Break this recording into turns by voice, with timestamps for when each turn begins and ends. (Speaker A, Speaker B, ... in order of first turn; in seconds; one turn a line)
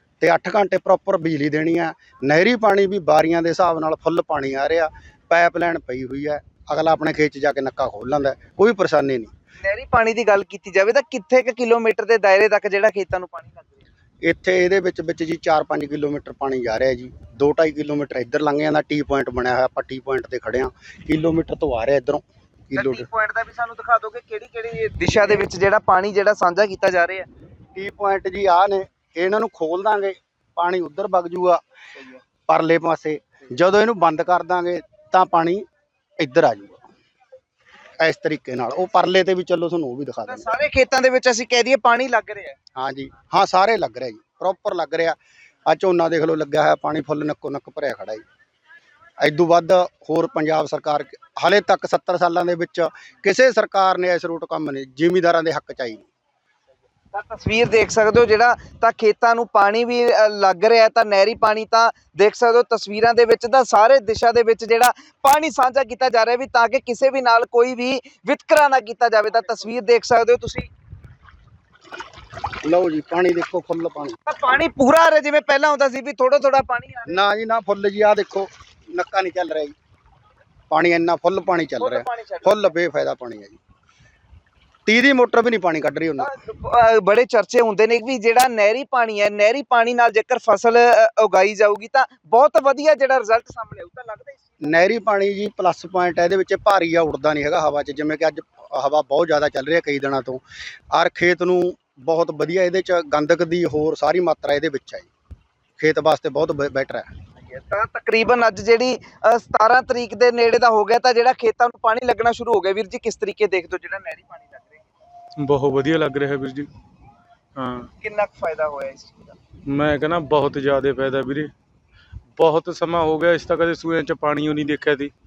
Speaker A: 0.2-9.3
Speaker B: 9.6-13.8
Speaker A: 14.2-23.1
Speaker B: 22.8-27.3
Speaker A: 27.8-31.6
Speaker A: 32.5-35.6
Speaker A: 36.2-36.9
Speaker A: 38.0-40.5
Speaker B: 40.3-42.6
Speaker A: 42.8-45.2
Speaker A: 45.7-48.2
Speaker A: 49.2-56.1
Speaker B: 57.1-70.7
Speaker A: 72.6-74.2
Speaker B: 74.3-77.2
Speaker A: 77.1-79.7
Speaker A: 80.7-83.6
Speaker B: 81.8-82.7
Speaker A: 84.9-86.3
Speaker B: 86.2-94.6
Speaker A: 94.6-105.1
Speaker A: 105.8-107.1
Speaker B: 107.5-114.8
Speaker C: 115.4-116.7
Speaker C: 117.6-117.9
Speaker B: 118.0-119.3
Speaker C: 119.7-121.5
Speaker C: 122.4-125.1